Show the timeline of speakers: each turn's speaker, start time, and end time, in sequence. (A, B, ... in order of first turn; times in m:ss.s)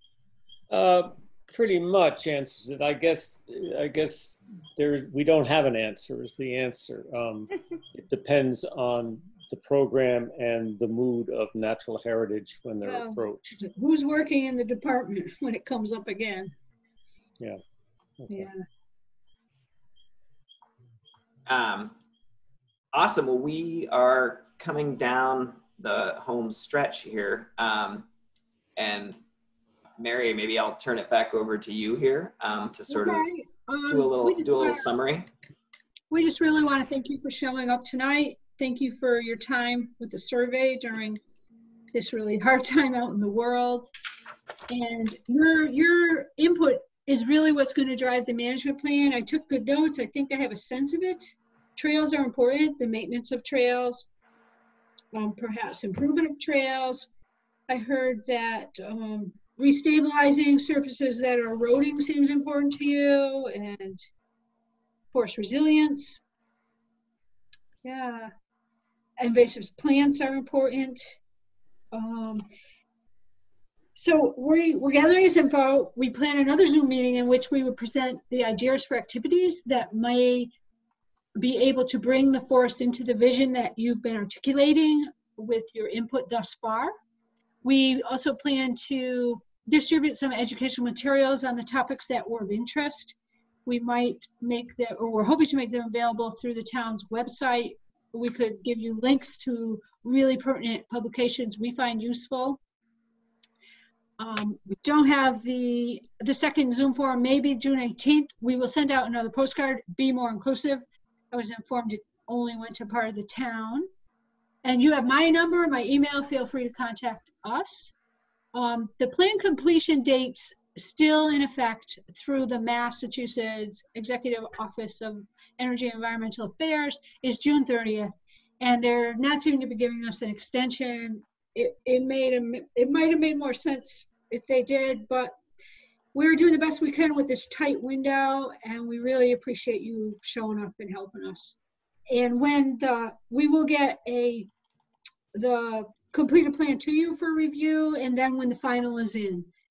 0:00.7-0:13.6 A
0:12.8-0:16.5 B
0:18.2-0:18.5 A
0:18.3-0:18.6 B
0:21.5-0:21.9 C
0:22.9-0:28.1 C
0:28.8-0:29.2 C
0:30.0-0:33.3 C
0:32.9-0:34.9 B
0:33.9-0:35.3 C
0:36.1-0:41.2 B
0:41.9-0:43.9 B
0:44.7-0:54.1 B
0:55.1-0:57.1 B
0:57.7-1:04.0 B
1:05.1-1:06.2 B
1:07.8-1:08.3 B
1:09.2-1:11.2 B
1:11.9-1:12.4 B
1:14.0-1:20.5 B
1:21.4-1:26.9 B
1:27.6-1:42.6 B
1:44.2-1:53.9 B
1:54.6-1:57.9 B
1:58.5-2:15.3 B
2:16.1-2:21.6 B
2:22.1-2:24.5 B
2:25.3-2:29.5 B